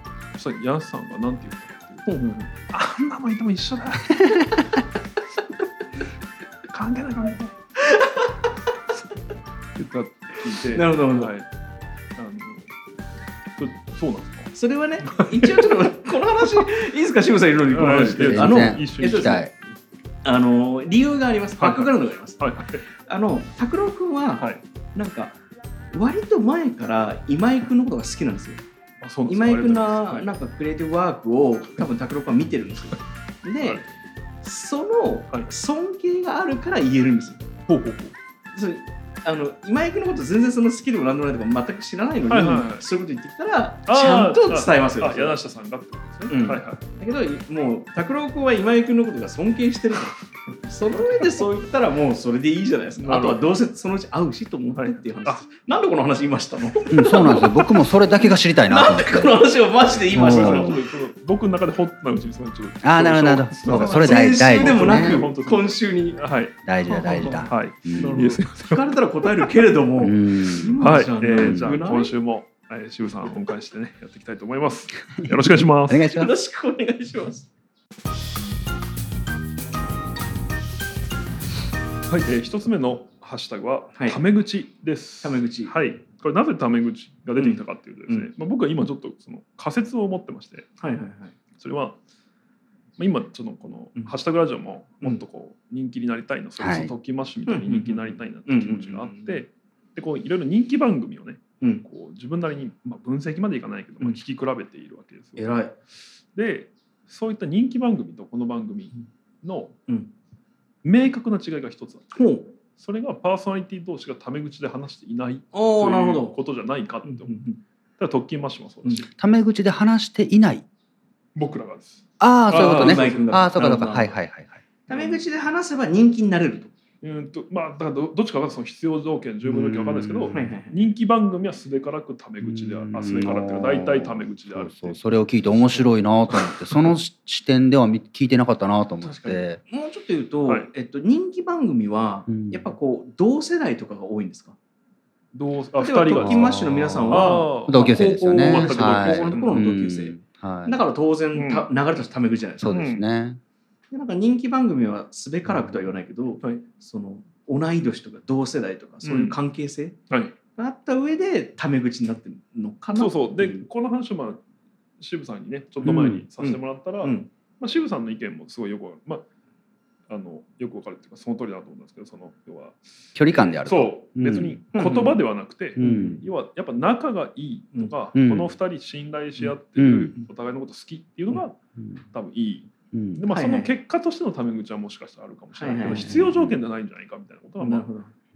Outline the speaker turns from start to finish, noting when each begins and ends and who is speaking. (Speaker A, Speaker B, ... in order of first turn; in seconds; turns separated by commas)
Speaker A: 0.3-4.3, Speaker B: 2.1-2.5, Speaker A: 6.7-7.5, Speaker B: 7.8-8.3, Speaker A: 9.7-11.5, Speaker B: 10.7-11.3, Speaker A: 12.2-12.7, Speaker A: 13.6-14.5, Speaker B: 14.5-19.4, Speaker A: 15.0-15.7, Speaker A: 17.7-19.5, Speaker C: 18.1-19.5, Speaker B: 20.2-22.5, Speaker A: 21.6-22.8, Speaker B: 23.0-25.4, Speaker B: 25.9-28.6, Speaker A: 29.0-30.3, Speaker B: 29.3-33.8, Speaker B: 34.4-37.5, Speaker A: 37.7-38.1, Speaker B: 38.5-45.4, Speaker A: 42.3-42.9, Speaker A: 43.9-46.8, Speaker B: 46.3-60.8, Speaker A: 51.0-51.4, Speaker A: 53.0-53.4, Speaker A: 54.8-55.4, Speaker C: 56.9-59.4, Speaker A: 60.1-66.5, Speaker C: 60.1-60.8, Speaker C: 62.8-65.2, Speaker B: 63.6-66.2, Speaker C: 66.6-68.2, Speaker B: 66.8-72.2, Speaker A: 67.5-69.0, Speaker C: 70.0-70.8, Speaker A: 70.8-76.1, Speaker C: 71.4-71.8, Speaker C: 75.8-76.3, Speaker B: 76.1-77.5, Speaker A: 82.1-90.7, Speaker B: 83.9-84.2, Speaker B: 85.2-85.7, Speaker B: 87.4-88.3, Speaker B: 90.8-91.3, Speaker A: 91.6-92.0, Speaker A: 93.0-105.6, Speaker C: 96.6-96.9, Speaker B: 97.5-99.4, Speaker B: 105.4-105.7, Speaker A: 106.3-109.7, Speaker A: 110.8-112.2, Speaker B: 112.1-112.5, Speaker A: 112.8-117.4, Speaker B: 115.5-116.3, Speaker B: 117.0-117.6, Speaker A: 118.0-119.1, Speaker C: 119.2-120.6, Speaker A: 121.3-123.9, Speaker C: 122.2-124.6, Speaker B: 122.5-124.1, Speaker B: 124.9-126.7, Speaker A: 124.9-125.2, Speaker A: 127.0-135.8, Speaker C: 129.5-130.4, Speaker B: 130.3-130.8, Speaker C: 132.4-139.6, Speaker B: 139.0-144.6, Speaker C: 142.3-142.7, Speaker A: 145.3-149.6, Speaker B: 145.8-150.1, Speaker C: 146.2-150.8, Speaker B: 150.7-152.7, Speaker A: 151.3-151.7, Speaker C: 152.6-153.4, Speaker A: 152.7-153.0, Speaker B: 153.9-160.0, Speaker A: 159.0-159.4, Speaker B: 160.6-163.6, Speaker A: 162.9-164.4, Speaker A: 165.0-169.2, Speaker C: 165.8-166.2, Speaker B: 165.9-167.3, Speaker A: 170.1-181.6, Speaker C: 173.1-174.6, Speaker B: 174.7-175.2, Speaker C: 175.8-176.2, Speaker B: 175.8-176.2, Speaker C: 178.1-178.5, Speaker C: 179.8-180.1, Speaker A: 182.1-187.9, Speaker C: 182.9-183.2, Speaker B: 183.3-183.7, Speaker B: 185.6-186.2, Speaker C: 185.8-186.6, Speaker B: 187.6-188.1